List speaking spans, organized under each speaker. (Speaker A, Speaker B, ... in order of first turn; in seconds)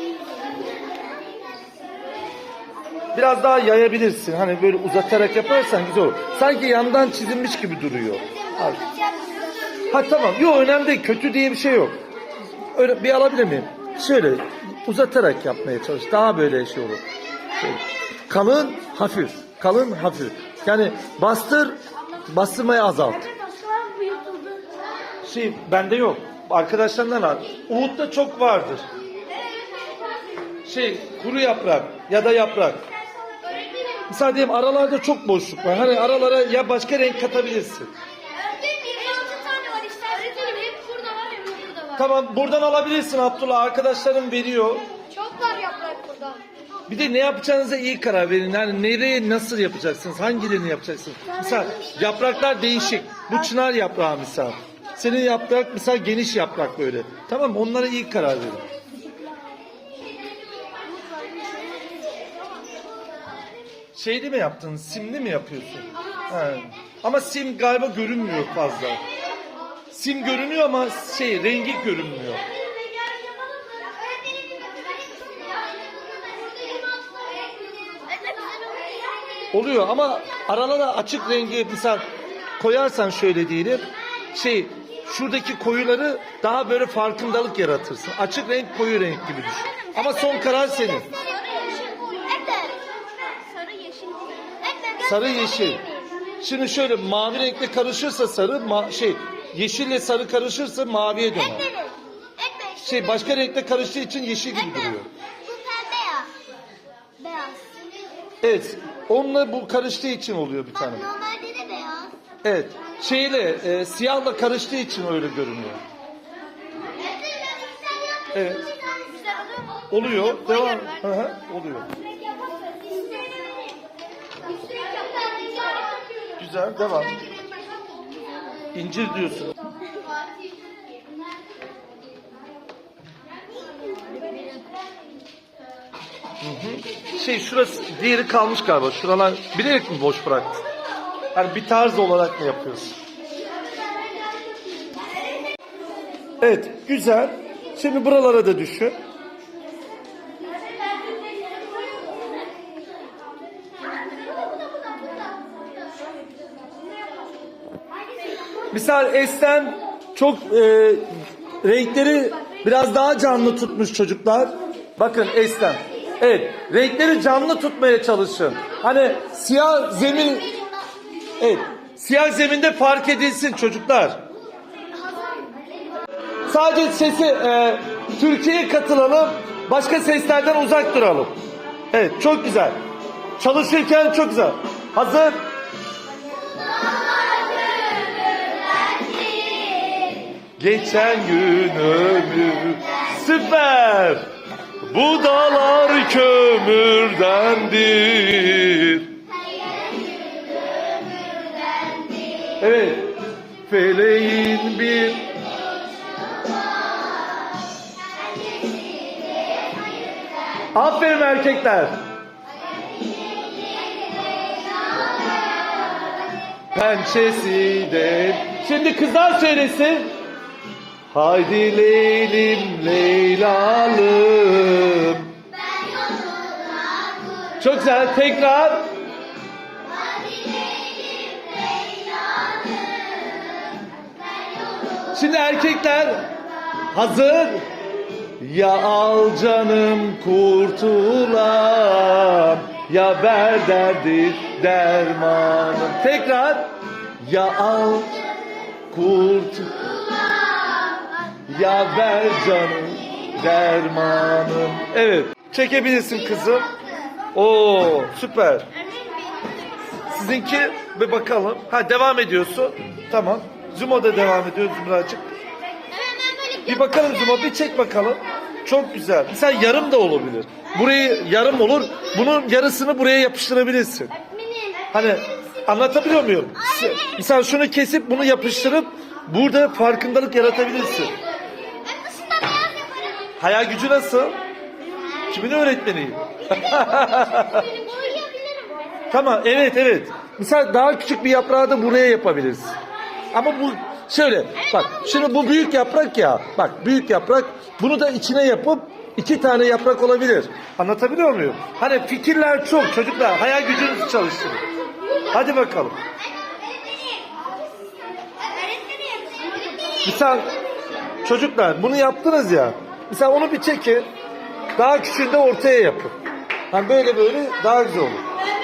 Speaker A: 3.1-8.9, 9.9-12.0, 12.8-17.0, 17.6-23.4, 25.2-28.9, 30.6-32.9, 34.1-37.9, 41.9-44.9, 46.9-58.7, 63.9-69.0, 69.9-72.4, 79.5-82.1, 82.6-91.2, 95.0-101.7, 102.8-105.1, 108.4-111.1, 112.4-115.8, 118.3-118.7, 119.9-121.9, 126.4-127.3, 128.7-129.6, 136.4-140.7, 141.3-143.0, 146.4-149.0, 158.7-161.1, 161.6-170.6, 171.4-174.2, 176.5-181.4, 181.9-182.8, 183.4-185.4, 190.6-194.3, 194.8-199.2, 202.6-205.3, 210.7-212.0, 216.7-220.1, 221.1-225.3, 227.6-228.9, 235.1-236.3, 236.9-237.7, 238.4-248.2, 248.9-249.8, 251.5-256.7, 257.3-258.7, 260.1-265.3, 266.6-274.1, 274.9-281.2, 283.4-284.4, 285.3-287.7, 289.1-292.8, 293.3-304.6, 305.3-306.0, 310.0-310.5, 311.2-314.1, 314.8-316.2, 316.7-318.2
Speaker B: 8.8-9.5, 23.5-24.7, 38.5-42.0, 45.1-46.4, 61.1-61.9, 91.2-92.8, 93.5-95.0, 101.8-102.8, 105.5-106.3, 107.2-107.9, 111.1-112.1, 125.3-125.5, 189.8-190.1, 225.8-227.2, 230.1-233.4, 266.2-266.5, 282.0-282.9, 287.9-288.4, 308.7-309.5